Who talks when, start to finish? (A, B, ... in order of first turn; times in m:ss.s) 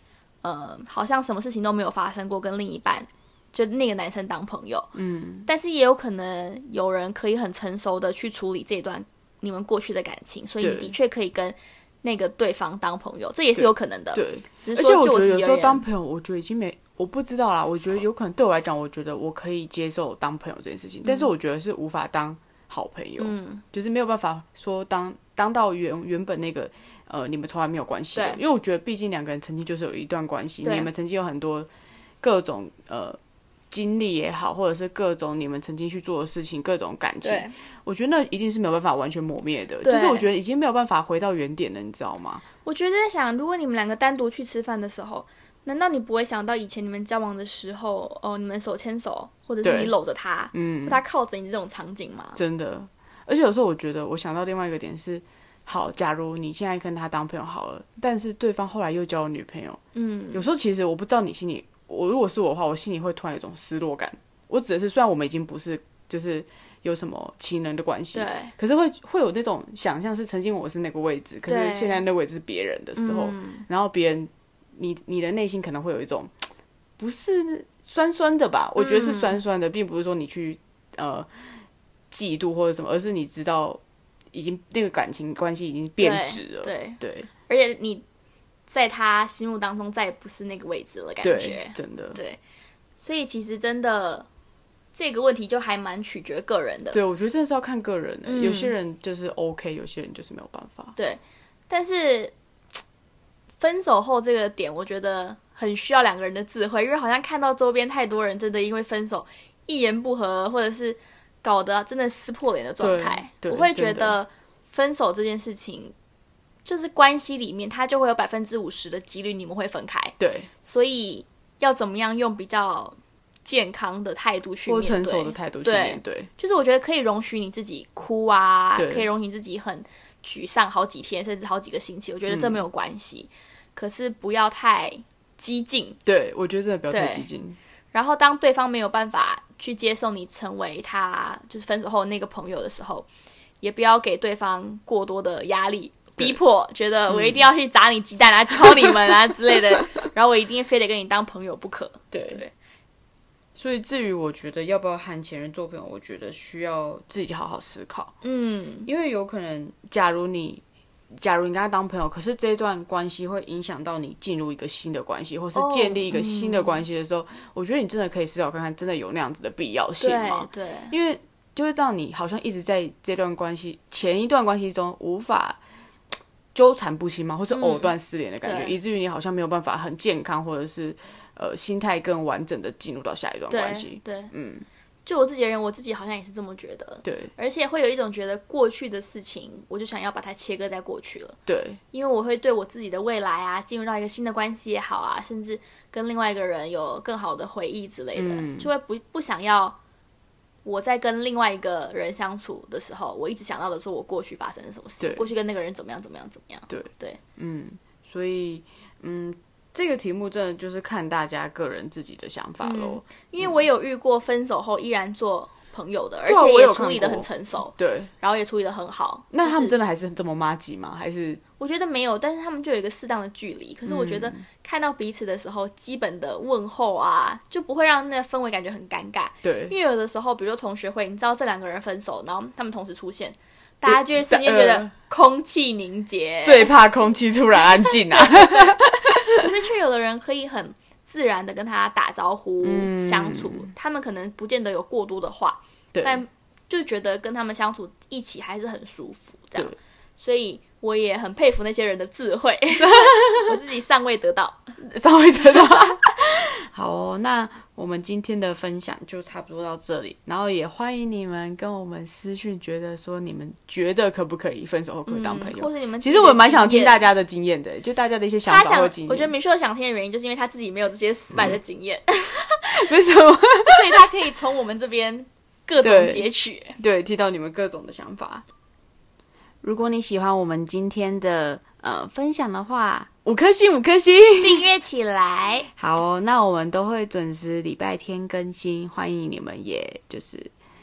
0:00.4-0:04.9 A
0:04.9-0:05.5 B
0:05.4-0:15.8 A
0:10.6-0:10.9 B
0:13.6-0:31.7 B
0:21.0-0:21.3 A
0:23.2-0:23.6 A
0:28.1-0:28.4 A
0:30.6-0:30.9 A
0:32.2-0:33.2 B
0:33.7-0:42.4 B
0:37.2-0:37.5 A
0:39.8-0:40.3 A
0:42.6-0:52.4 A
0:49.6-0:49.9 B
0:50.5-0:51.0 B
0:52.3-0:59.8 B
0:59.9-1:00.4 A
1:00.3-1:16.3 B
1:08.1-1:08.5 A
1:11.5-1:12.0 A
1:13.0-1:13.6 A
1:17.0-1:21.4 B
1:18.8-1:19.4 A
1:22.1-1:23.8 B
1:24.3-1:27.3 B
1:26.0-1:28.0 A
1:28.7-1:32.4 A
1:31.2-1:32.2 B
1:33.0-1:34.2 A
1:34.9-1:37.0 A
1:36.9-1:40.9 B
1:38.2-1:38.7 A
1:41.0-1:42.3 A
1:43.6-1:55.9 A
1:52.8-1:54.2 B
1:56.6-2:16.0 A
2:00.2-2:00.5 B
2:04.7-2:06.3 B
2:08.7-2:09.1 B
2:12.3-2:12.6 B
2:16.0-2:17.6 B
2:16.9-2:17.3 A
2:17.9-2:23.1 A
2:23.6-2:32.5 A
2:27.1-2:27.5 B
2:32.1-2:32.4 B
2:33.6-2:38.1 B
2:38.2-2:38.9 A
2:38.8-2:55.6 B
2:45.5-2:46.8 A
2:50.0-2:50.9 A
2:56.5-3:04.6 B
2:57.5-2:57.9 A
2:58.4-2:58.8 A
3:03.5-3:04.3 A
3:05.0-3:11.4 A
3:07.0-3:07.3 B
3:11.5-3:11.8 B
3:11.9-3:19.8 A
3:18.1-3:18.7 B
3:20.6-3:27.2 A
3:27.4-3:33.6 B
3:32.6-3:39.7 A
3:36.2-3:38.1 B
3:39.3-3:41.4 B
3:41.6-3:56.7 A
3:43.8-3:44.4 B
3:49.4-3:49.7 B
3:53.8-3:54.9 B
3:56.4-3:59.4 B
3:58.1-3:58.7 A
3:59.3-4:14.7 A
4:02.6-4:03.7 B
4:05.9-4:06.2 B
4:12.9-4:13.6 B
4:14.8-4:29.3 B
4:15.6-4:15.9 A
4:25.0-4:27.1 A
4:28.4-4:32.9 A
4:32.7-4:34.1 B
4:33.6-4:36.8 A
4:35.8-4:38.4 B
4:39.6-4:44.7 B
4:44.4-4:45.7 A
4:45.8-4:50.5 B